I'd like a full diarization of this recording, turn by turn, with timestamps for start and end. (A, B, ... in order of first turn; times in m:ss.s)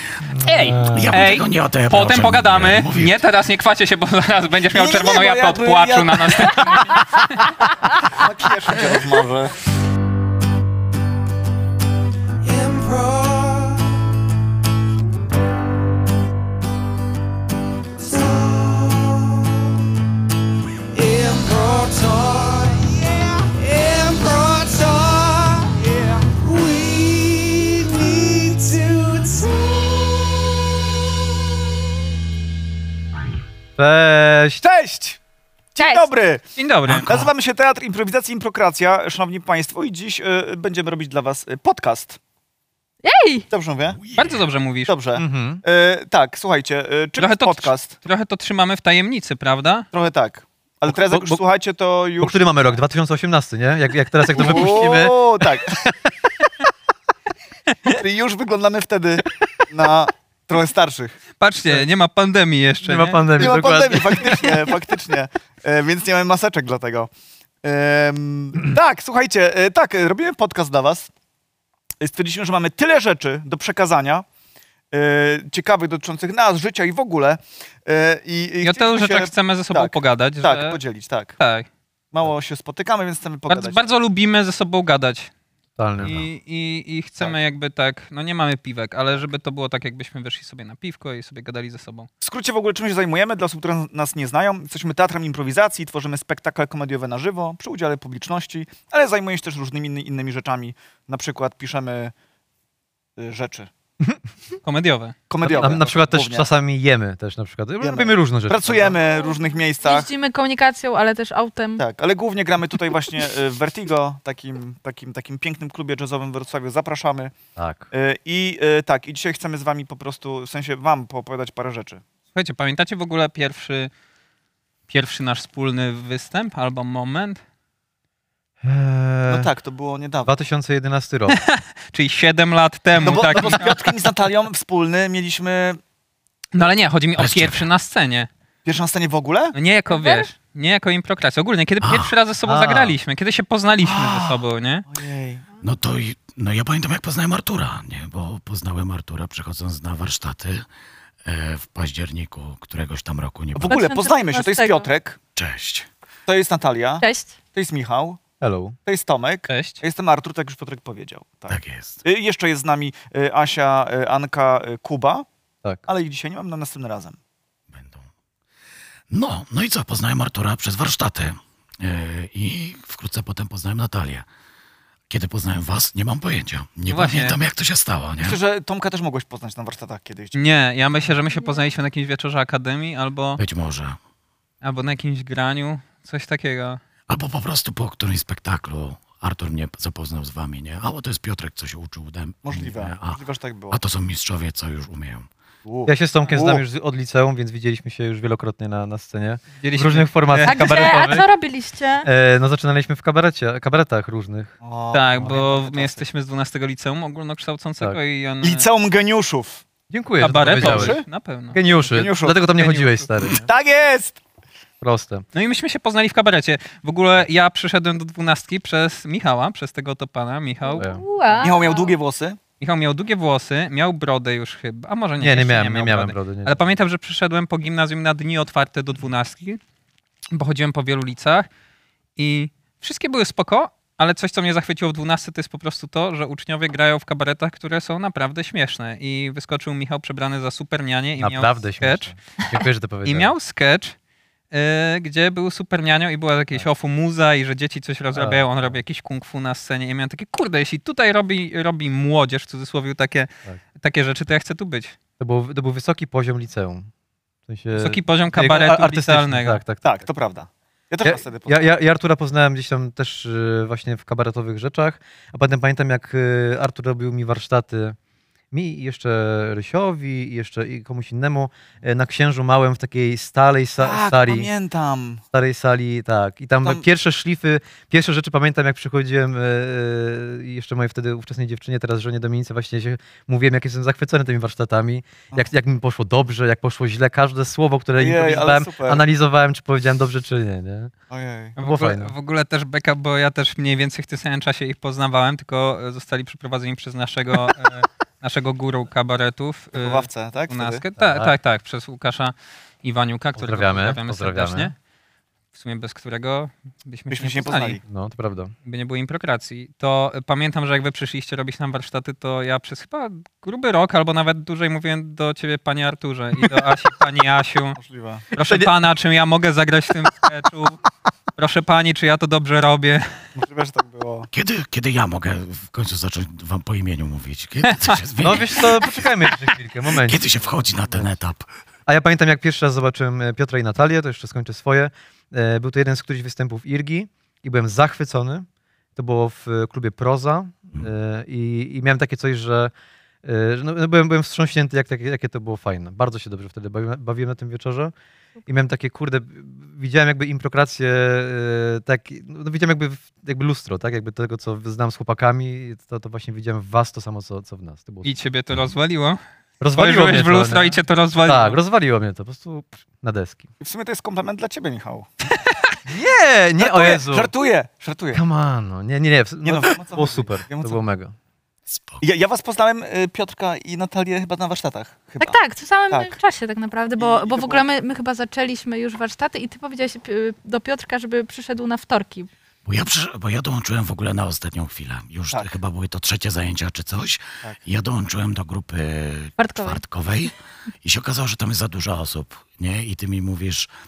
0:00.3-0:01.2 A
0:00.4-0:07.7 B
0:00.8-0:03.2 C
0:04.7-0:06.6 D
0:08.1-0:09.5 D
0:12.8-0:13.5 D
0:21.0-0:29.9 D
0:33.8-0:34.6 A
0:34.6-0:35.2 D
0:35.8-0:42.2 D
0:35.8-0:36.1 E
0:36.6-0:37.2 B
0:43.0-0:43.5 E
0:43.5-0:44.0 D
0:43.9-0:44.6 C
0:44.1-0:44.9 B
0:44.8-0:48.0 D
0:45.2-0:45.6 A
0:47.2-0:49.9 B
0:49.9-0:52.4 D
0:50.9-0:51.4 A
0:52.2-0:56.1 A
0:54.3-0:55.7 D
0:57.8-1:01.2 D
1:01.4-1:03.5 B
1:02.8-1:04.7 A
1:03.3-1:07.1 D
1:07.6-1:11.1 D
1:12.0-1:14.2 D
1:14.9-1:21.4 D
1:18.6-1:20.8 B
1:21.4-1:21.7 B
1:22.1-1:23.9 D
1:23.5-1:25.3 B
1:25.8-1:26.3 A
1:26.0-1:32.1 B
1:32.2-1:42.1 D
1:43.2-1:43.7 D
1:44.6-1:45.7 B
1:45.3-1:46.5 D
1:45.4-1:49.0 A
1:47.8-1:50.1 D
1:49.1-1:51.8 E
1:51.8-1:57.3 D
1:57.6-1:57.9 A
1:57.9-2:02.0 D
2:02.3-2:03.9 B
2:04.9-2:07.4 B
2:08.6-2:09.5 A
2:09.3-2:10.3 D
2:10.2-2:11.4 A
2:11.3-2:13.8 B
2:12.9-2:15.8 D
2:16.5-2:18.3 B
2:17.2-2:17.7 C
2:18.6-2:19.6 D
2:19.5-2:24.8 B
2:19.9-2:20.3 E
2:21.8-2:22.2 C
2:22.4-2:23.0 A
2:23.8-2:25.4 D
2:25.6-2:30.7 C
2:31.2-2:33.8 C
2:33.5-2:35.2 D
2:33.7-2:34.9 E
2:35.4-2:35.9 C
2:36.3-2:38.2 D
2:37.0-2:37.4 E
2:38.4-2:38.8 A
2:38.8-2:45.2 D
2:39.5-2:39.8 B
2:41.5-2:42.0 C
2:45.9-2:47.2 D
2:47.7-2:48.1 C
2:49.1-2:54.3 C
2:55.1-2:58.4 C
2:56.9-2:57.4 B
2:58.2-3:00.4 D
3:00.3-3:03.4 B
3:01.2-3:01.6 E
3:03.4-3:04.0 C
3:04.6-3:06.8 B
3:07.1-3:13.2 C
3:12.4-3:13.8 D
3:13.7-3:15.3 C
3:15.6-3:16.6 D
3:15.8-3:21.3 A
3:19.6-3:20.7 B
3:20.4-3:22.1 E
3:22.0-3:24.5 A
3:24.6-3:26.1 D
3:24.9-3:28.7 B
3:28.4-3:29.6 D
3:29.9-3:31.0 A
3:30.2-3:32.0 B
3:30.4-3:31.0 D
3:31.5-3:33.4 A
3:31.9-3:32.4 D
3:32.5-3:33.1 B
3:33.2-3:34.2 D
3:34.8-3:35.2 A
3:35.3-3:40.9 B
3:40.6-3:41.9 E
3:40.8-3:41.0 A
3:41.4-3:42.4 D
3:42.6-3:49.6 B
3:45.2-3:46.6 A
3:50.3-3:51.5 B
3:52.2-4:04.0 B
4:01.2-4:03.3 A
4:04.5-4:14.9 B
4:08.1-4:08.8 A
4:15.2-4:16.9 A
4:17.5-4:20.1 A
4:17.8-4:19.6 B
4:19.8-4:21.7 D
4:21.0-4:28.0 A
4:28.5-4:34.5 A
4:33.8-4:35.2 D
4:35.3-4:50.9 A
4:48.0-4:49.0 D
4:51.1-4:51.6 D
4:51.6-5:04.8 B
4:51.6-4:52.1 A
4:59.8-5:00.8 D
5:01.0-5:01.4 A
5:03.4-5:04.7 A
5:05.5-5:07.8 B
5:07.1-5:07.8 D
5:07.9-5:08.5 A
5:08.6-5:17.8 B
5:17.8-5:18.2 D
5:18.3-5:20.8 B
5:18.4-5:18.7 A
5:21.4-5:23.1 B
5:23.4-5:24.3 D
5:24.3-5:29.1 C
5:28.2-5:31.2 A
5:29.9-5:31.5 C
5:31.9-5:42.7 A
5:43.2-5:47.9 A
5:48.4-5:48.7 E
5:48.5-5:58.2 A
5:58.0-5:59.2 B
5:59.6-6:03.5 A
5:59.8-6:01.6 B
6:03.6-6:05.1 D
6:05.9-6:07.3 A
6:06.6-6:08.2 D
6:08.1-6:11.1 A
6:09.4-6:10.8 D
6:11.7-6:12.0 C
6:12.0-6:15.4 D
6:15.2-6:22.3 E
6:15.9-6:16.2 D
6:17.0-6:17.7 D
6:22.6-6:33.7 C
6:25.3-6:25.6 D
6:29.4-6:29.8 E